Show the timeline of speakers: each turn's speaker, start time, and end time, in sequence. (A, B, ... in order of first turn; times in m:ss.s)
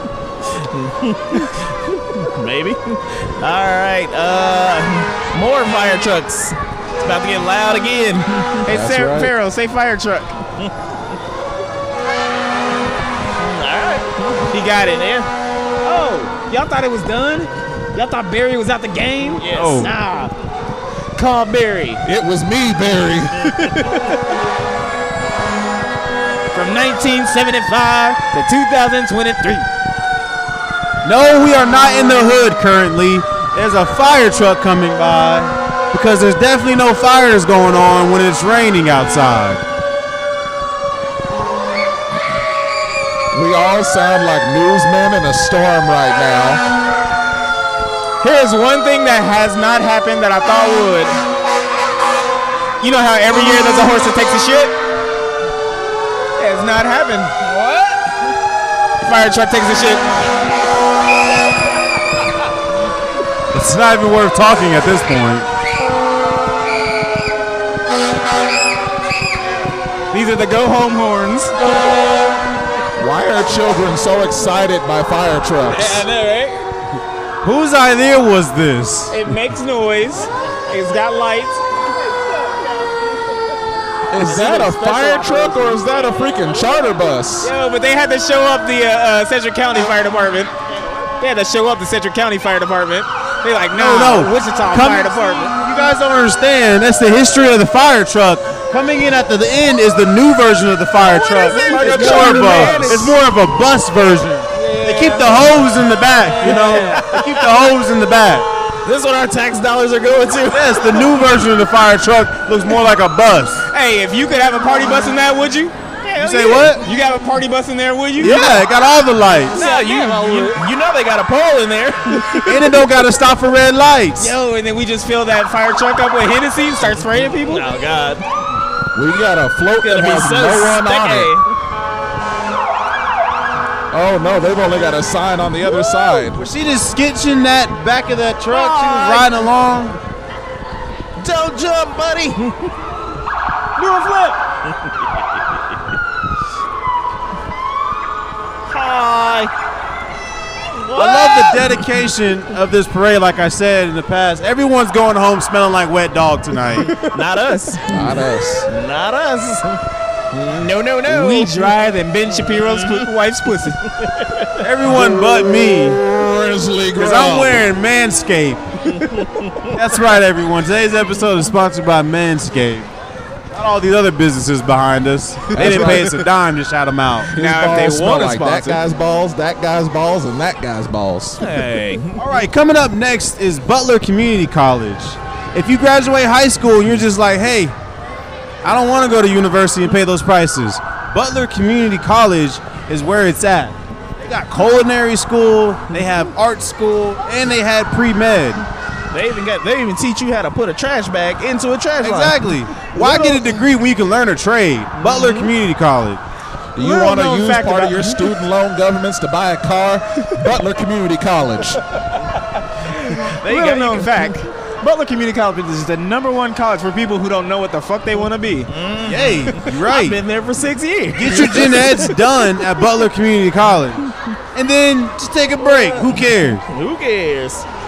0:00.6-0:08.7 A
0:08.6-0:09.3 B
0:08.6-0:10.4 C
0:13.4-0:14.5 A
0:14.5-0:15.3 C
0:15.8-0:20.3 C
0:19.4-0:19.9 A
0:19.5-0:19.9 D
0:21.2-0:22.0 C
0:22.0-0:23.9 B
0:26.5-0:29.7 C
0:31.0-0:39.6 D
0:43.3-0:46.6 B
0:48.2-0:51.2 C
0:52.8-0:54.7 C
0:56.4-0:57.9 C
0:57.5-0:57.9 A
0:59.0-1:00.0 C
1:03.5-1:05.5 D
1:10.1-1:11.6 C
1:13.0-1:16.1 B
1:15.7-1:16.6 C
1:17.4-1:19.2 D
1:19.1-1:21.6 C
1:24.1-1:27.5 B
1:24.2-1:26.2 C
1:27.4-1:30.5 C
1:31.2-1:35.6 C
1:33.8-1:48.5 D
1:41.1-1:43.2 A
1:41.1-1:43.1 C
1:42.0-1:42.9 B
1:44.5-1:45.5 C
1:46.3-1:47.3 C
1:46.4-1:47.0 A
1:48.8-1:51.2 A
1:50.5-1:53.6 D
1:53.7-1:55.7 C
1:56.0-1:56.8 A
1:56.2-1:56.8 D
1:56.8-1:58.6 C
1:58.2-1:59.6 D
1:59.5-2:02.8 A
1:59.5-2:00.6 C
2:02.4-2:04.3 D
2:04.2-2:07.6 C
2:07.4-2:08.2 A
2:08.9-2:11.3 B
2:09.8-2:11.5 A
2:13.9-2:16.4 B
2:16.3-2:20.0 D
2:18.5-2:19.3 A
2:21.2-2:22.7 A
2:23.8-2:24.4 C
2:28.7-2:29.5 A
2:30.7-2:31.8 A
2:31.0-2:37.0 D
2:36.9-2:38.2 A
2:37.9-2:38.7 B
2:38.7-2:39.8 A
2:40.3-2:41.6 A
2:41.0-2:43.8 C
2:42.5-2:43.1 A
2:44.1-2:44.5 A
2:44.6-2:46.0 D
2:45.0-2:47.7 B
2:46.9-2:48.7 D
2:49.1-2:49.7 A
2:49.7-2:52.9 D
2:53.5-2:57.3 D
2:55.5-2:56.2 B
2:57.3-3:01.4 B
2:57.3-2:58.8 C
3:01.4-3:02.2 A
3:02.2-3:07.8 D
3:08.6-3:18.6 D
3:19.1-3:23.6 A
3:22.0-3:26.2 D
3:25.0-3:25.5 A
3:26.7-3:31.8 B
3:26.8-3:28.3 C
3:32.8-3:34.3 A
3:33.4-3:38.7 C
3:38.7-3:42.2 A
3:39.0-3:40.2 D
3:41.2-3:46.6 D
3:45.6-3:47.6 A